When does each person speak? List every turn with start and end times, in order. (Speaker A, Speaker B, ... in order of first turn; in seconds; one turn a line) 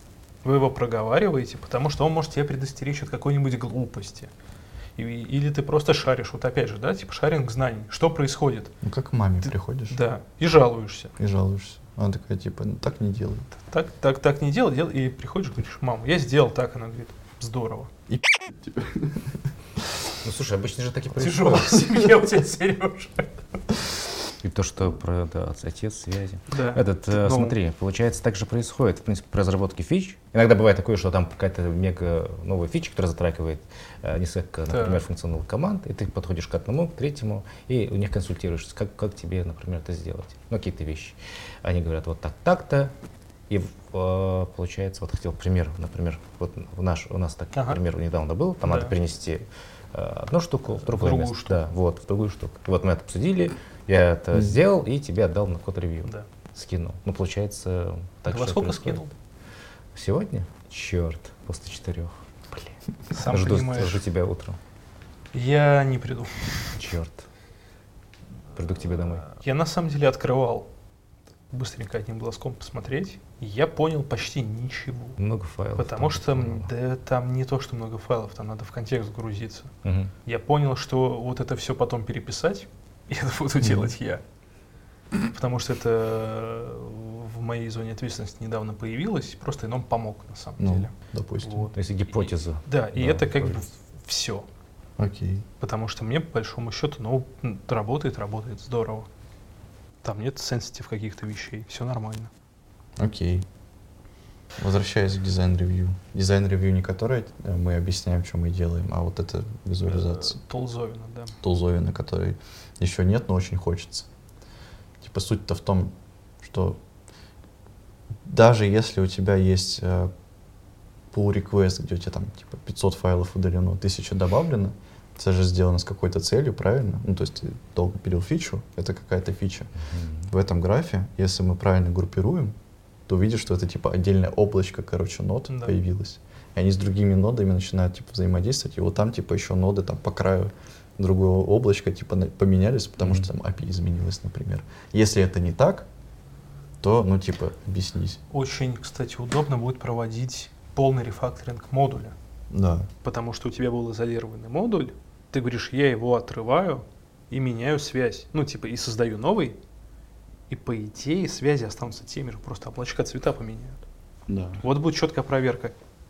Speaker A: 0.4-4.3
Speaker A: 5.0-8.7
Speaker B: 8.8-10.0
Speaker A: 9.9-11.1
Speaker B: 11.2-13.5
Speaker A: 13.6-17.9
Speaker B: 18.1-19.2
Speaker C: 20.2-21.9
Speaker A: 21.1-23.3
Speaker C: 24.4-42.9
Speaker A: 26.5-27.6
Speaker A: 34.7-35.0
Speaker C: 43.5-59.0
Speaker A: 47.5-47.8
Speaker A: 48.6-48.9
Speaker A: 50.8-51.6
Speaker A: 58.3-59.1
Speaker C: 59.9-64.6
Speaker A: 63.1-64.0
Speaker A: 65.3-66.7
Speaker C: 66.7-67.3
Speaker C: 68.5-69.3
Speaker A: 69.3-70.7
Speaker A: 71.5-75.2
Speaker C: 75.2-76.7
Speaker A: 75.8-79.7
Speaker C: 79.8-80.1
Speaker A: 80.2-84.2
Speaker B: 83.6-83.9
Speaker A: 85.3-90.9
Speaker B: 90.6-91.7
Speaker A: 91.4-94.5
Speaker C: 91.7-93.6
Speaker B: 95.0-95.4
Speaker A: 95.6-99.1
Speaker A: 100.0-102.3
Speaker B: 103.0-103.5
Speaker B: 104.6-110.4
Speaker A: 109.8-111.4
Speaker B: 111.4-114.1
Speaker B: 115.0-116.8
Speaker B: 118.2-120.1
Speaker B: 121.1-129.7
Speaker C: 129.8-130.3
Speaker B: 130.3-132.5
Speaker B: 133.1-145.9
Speaker A: 135.5-135.7
Speaker B: 146.8-148.2
Speaker A: 148.3-152.1
Speaker B: 152.5-152.9
Speaker A: 153.0-159.6
Speaker A: 160.5-163.8
Speaker B: 164.3-164.6
Speaker A: 164.6-165.7